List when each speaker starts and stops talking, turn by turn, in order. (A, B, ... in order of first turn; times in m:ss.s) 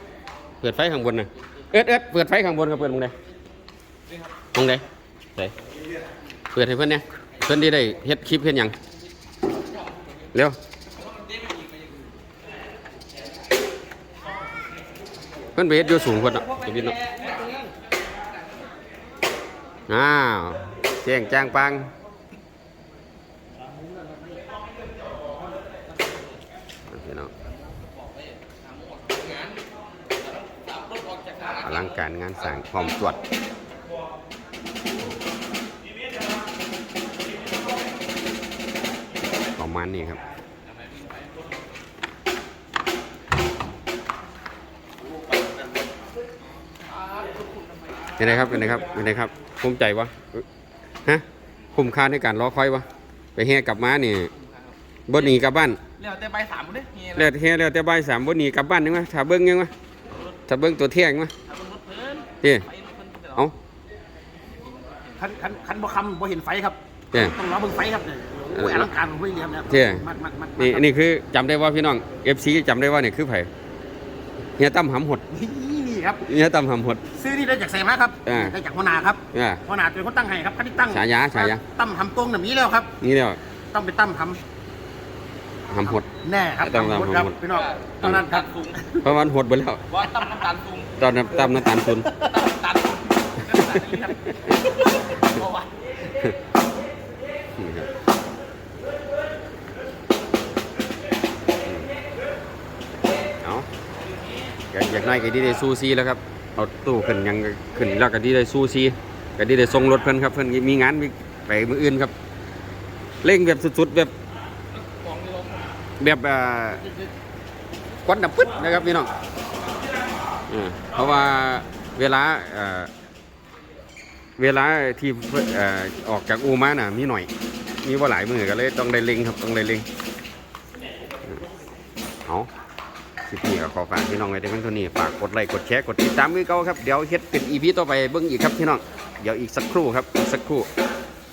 0:00.6-0:03.1 A
0:04.5-0:04.8 A
0:06.5-0:08.8 A
0:15.5-0:17.0 A
0:19.9-0:21.9 A
0:26.9-0:27.3 A
0:28.0-0:29.6 B
0:30.5-0:31.9 B
0:31.6-0:33.2 A
0:39.5-0:40.2 A
0:48.2-0:50.4 A
0:51.0-0:54.3 A
0:54.4-0:55.2 B
0:55.1-0:55.8 A
0:56.0-0:57.3 B
0:57.1-0:59.7 A
1:00.5-1:01.3 A
1:01.5-1:03.5 B
1:02.4-1:02.7 A
1:05.2-1:10.8 C
1:08.5-1:08.9 A
1:09.7-1:10.0 A
1:10.6-1:13.5 A
1:14.6-1:15.2 A
1:15.3-1:16.2 C
1:16.2-1:17.0 A
1:17.1-1:22.9 C
1:18.2-1:18.6 A
1:19.3-1:19.6 A
1:20.9-1:21.6 A
1:23.0-1:23.4 A
1:23.7-1:24.4 C
1:25.7-1:26.1 A
1:25.8-1:29.0 C
1:26.6-1:27.4 A
1:27.5-1:28.8 B
1:28.0-1:28.3 A
1:29.0-1:30.0 A
1:29.9-1:30.9 B
1:31.0-1:32.1 A
1:32.1-1:35.7 B
1:36.1-1:36.3 A
1:37.6-1:37.9 A
1:41.6-1:41.9 A
1:44.7-1:52.1 A
1:53.2-1:54.1 A
1:54.8-1:55.6 B
1:56.0-1:56.9 A
1:58.0-1:59.1 A
2:00.5-2:02.9 A
2:04.4-2:07.3 A
2:07.8-2:09.8 A
2:13.3-2:20.7 A